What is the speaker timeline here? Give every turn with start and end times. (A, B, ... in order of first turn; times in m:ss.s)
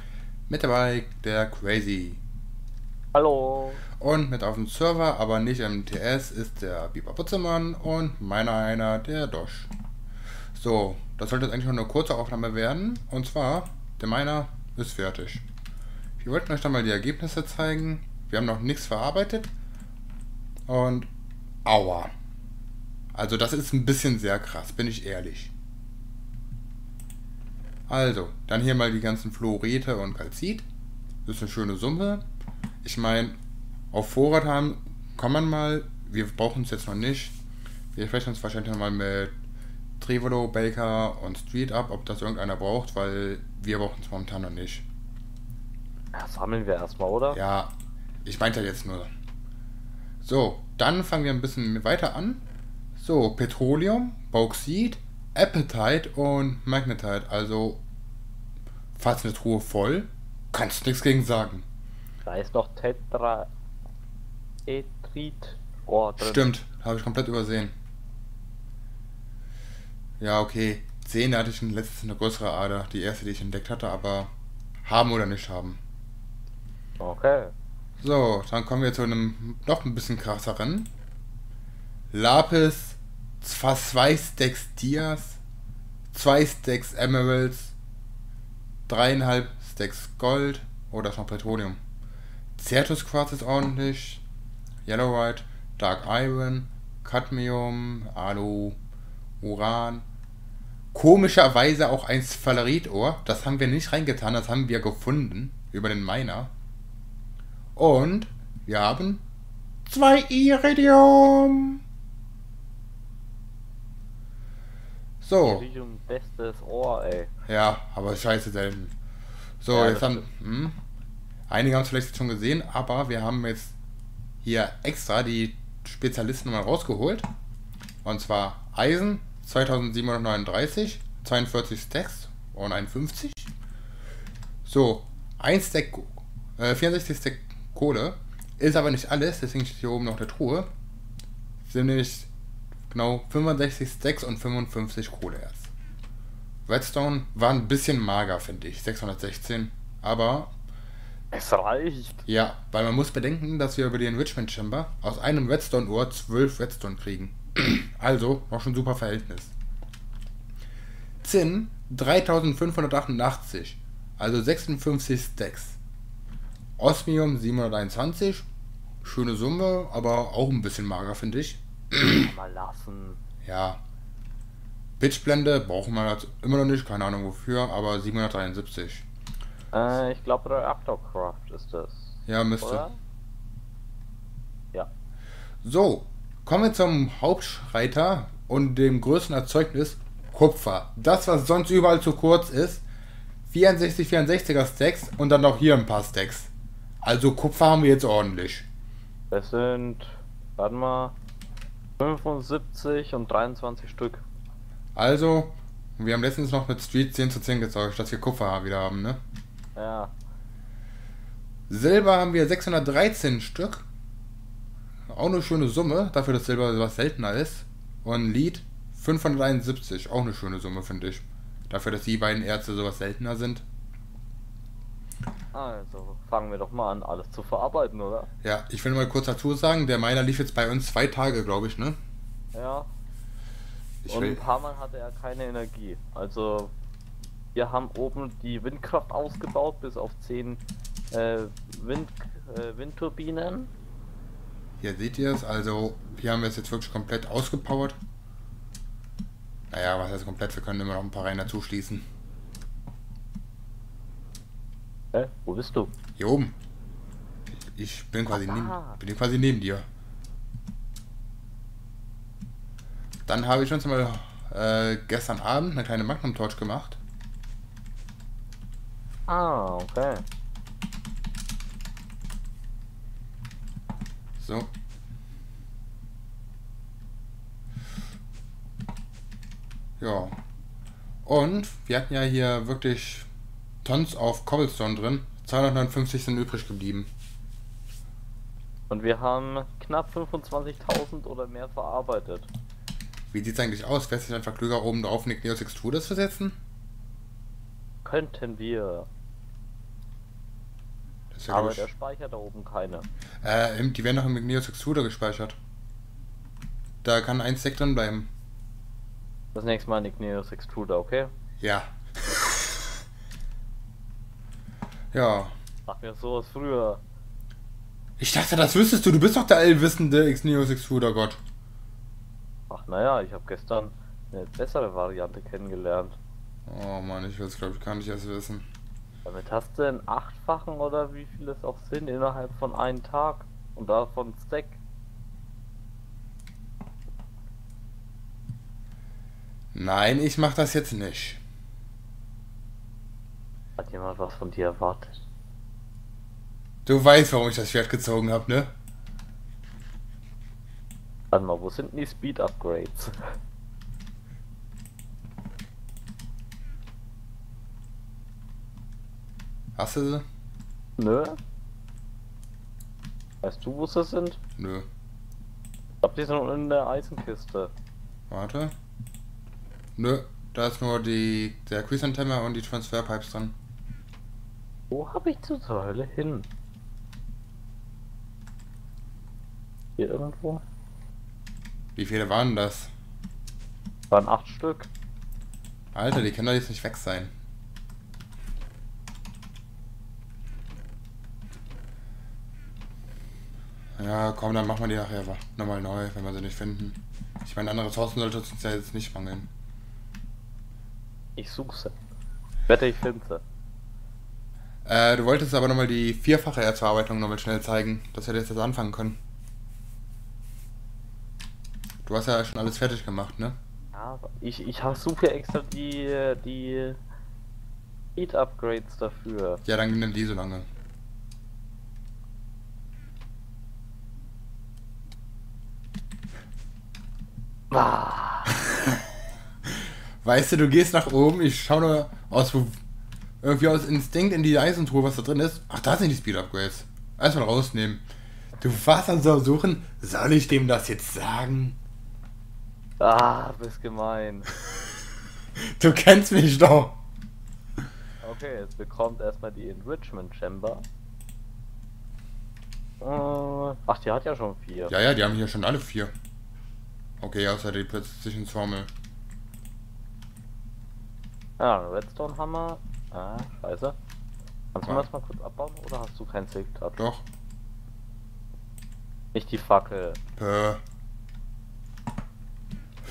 0:00.5-0:02.2 A
0:03.1-0:03.8 B
0:04.0-0:09.7 A
0:10.6-0:15.4 A
0:16.2-0:19.5 A
0:20.7-0:21.1 A
0:21.6-0:22.1 A
0:23.1-0:25.5 A
0:27.9-0:30.7 A
0:31.3-0:32.2 A
0:32.8-0:33.4 A
0:33.9-0:37.4 A
0:37.9-0:39.3 A
0:40.0-0:44.9 A
0:46.1-0:47.4 B
0:47.3-0:47.7 A
0:48.2-0:49.1 A
0:50.2-0:52.4 A
0:53.0-0:57.8 A
0:59.0-1:01.6 A
1:02.3-1:03.5 B
1:04.7-1:06.5 B
1:06.2-1:07.7 A
1:10.2-1:14.3 A
1:14.8-1:15.8 A
1:17.0-1:17.5 B
1:18.0-1:20.9 A
1:22.1-1:25.4 A
1:26.1-1:27.8 A
1:28.9-1:31.8 A
1:32.6-1:34.2 A
1:34.9-1:38.8 A
1:39.4-1:40.1 A
1:40.9-1:46.5 A
1:47.8-1:49.2 A
1:49.9-1:51.8 A
1:55.2-1:55.7 A
1:55.4-1:57.3 B
1:57.5-1:58.9 A
1:59.6-2:00.8 A
1:59.7-2:00.3 B
2:01.5-2:03.8 A
2:04.4-2:07.3 A
2:08.0-2:13.5 A
2:14.7-2:20.7 A
2:21.6-2:22.3 A
2:22.9-2:25.7 A
2:26.7-2:30.5 A
2:31.3-2:32.2 B
2:32.3-2:39.5 A
2:41.2-2:45.8 A
2:46.8-2:48.5 A
2:49.0-2:52.2 A
2:52.1-2:53.2 B
2:53.4-2:53.8 A
2:55.0-2:59.1 A
2:59.7-3:03.0 B
3:02.3-3:02.8 A
3:05.6-3:12.8 A
3:13.5-3:16.5 A
3:17.0-3:18.7 A
3:19.3-3:21.2 B
3:22.0-3:24.2 B
3:25.0-3:29.2 A
3:29.8-3:30.1 B
3:31.7-3:33.9 A
3:35.1-3:43.6 A
3:45.5-3:48.3 B
3:48.4-3:52.0 A
3:52.5-3:52.9 B
3:54.0-3:54.4 A
3:54.1-3:56.7 B
3:57.6-4:03.7 B
4:04.8-4:08.0 A
4:09.7-4:12.1 A
4:15.1-4:15.9 B
4:16.2-4:16.6 A
4:17.7-4:19.9 A
4:18.3-4:19.0 B
4:23.3-4:27.0 A
4:29.3-4:30.2 B
4:34.4-4:34.7 A
4:40.0-4:40.4 A
4:41.2-4:43.3 A
4:43.8-4:47.1 A
4:48.9-4:52.5 B
4:53.3-4:56.6 A
4:58.0-4:59.1 B
5:01.3-5:01.9 A
5:01.5-5:03.1 B
5:03.4-5:05.6 A
5:07.0-5:08.3 A
5:09.6-5:11.3 B
5:11.6-5:12.4 A
5:15.1-5:15.5 A
5:15.9-5:17.0 B
5:18.2-5:21.4 A
5:22.7-5:26.2 B
5:26.7-5:28.7 A
5:29.2-5:34.8 B
5:39.7-5:41.4 A
5:43.8-5:45.2 B
5:46.8-5:48.7 A
5:51.3-5:53.3 B
5:59.8-6:00.2 A
6:01.0-6:01.4 B
6:03.4-6:04.4 B
6:04.6-6:04.9 A
6:06.0-6:07.7 B
6:08.3-6:08.7 A
6:10.0-6:13.6 A
6:14.9-6:16.5 B
6:20.0-6:20.6 B
6:22.0-6:22.9 A
6:24.1-6:24.9 B
6:25.9-6:27.3 A
6:34.0-6:39.5 A
6:41.4-6:41.9 B
6:42.7-6:43.4 B
6:44.8-6:49.2 A
6:52.0-6:53.6 A
6:53.9-6:57.0 B
6:58.2-6:59.6 B
6:59.6-7:00.7 A
7:07.7-7:08.5 B
7:10.2-7:12.8 A
7:13.4-7:18.0 A
7:18.6-7:21.8 A
7:23.0-7:24.5 B
7:25.6-7:27.0 A
7:28.2-7:30.9 B
7:33.0-7:34.9 B
7:34.9-7:36.1 A
7:37.2-7:38.9 A
7:41.6-7:44.0 B
7:44.8-7:47.1 B
7:47.0-7:47.2 A
7:49.3-7:50.2 B
7:50.4-7:50.8 A